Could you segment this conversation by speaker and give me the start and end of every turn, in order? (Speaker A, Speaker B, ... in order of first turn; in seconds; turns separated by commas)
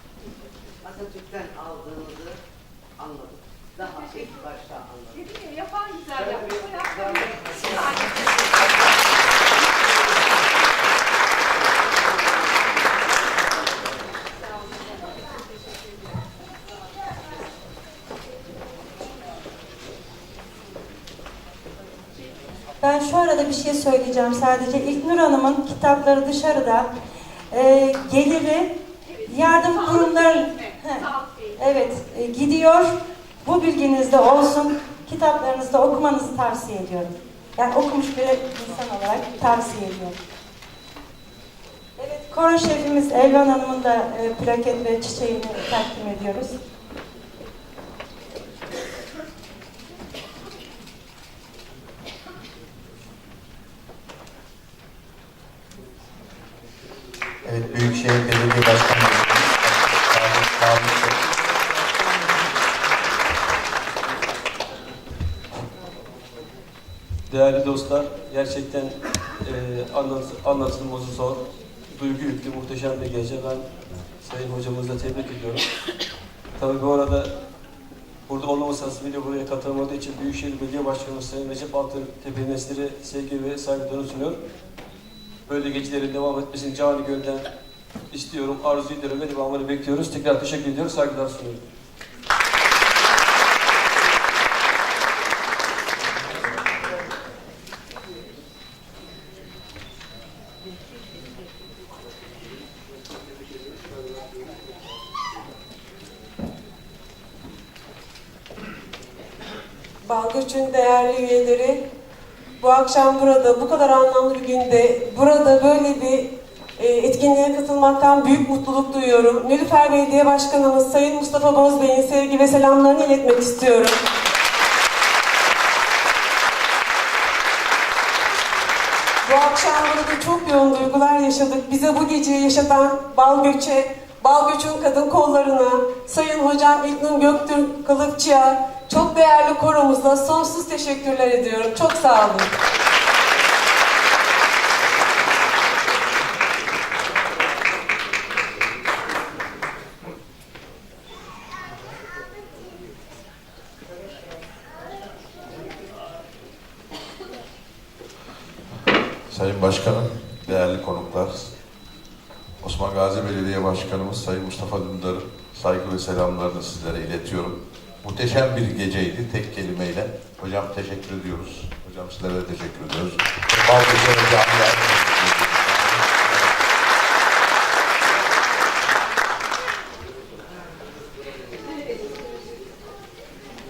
Speaker A: 0.9-2.3, Speaker A: 3.0-3.3, Speaker A: 4.5-5.0, Speaker B: 5.1-8.2, Speaker C: 22.8-26.9, Speaker C: 27.5-28.7, Speaker C: 29.3-31.1, Speaker B: 30.2-31.6, Speaker C: 31.6-40.2, Speaker C: 42.0-46.6, Speaker D: 57.5-61.2, Speaker E: 67.3-73.7, Speaker E: 74.2-75.6, Speaker E: 76.6-77.3, Speaker E: 78.3-84.4, Speaker E: 85.5-87.5, Speaker E: 88.1-91.6, Speaker F: 110.0-111.8, Speaker F: 112.6-124.0, Speaker F: 129.2-142.5, Speaker G: 159.3-161.5, Speaker G: 162.6-176.5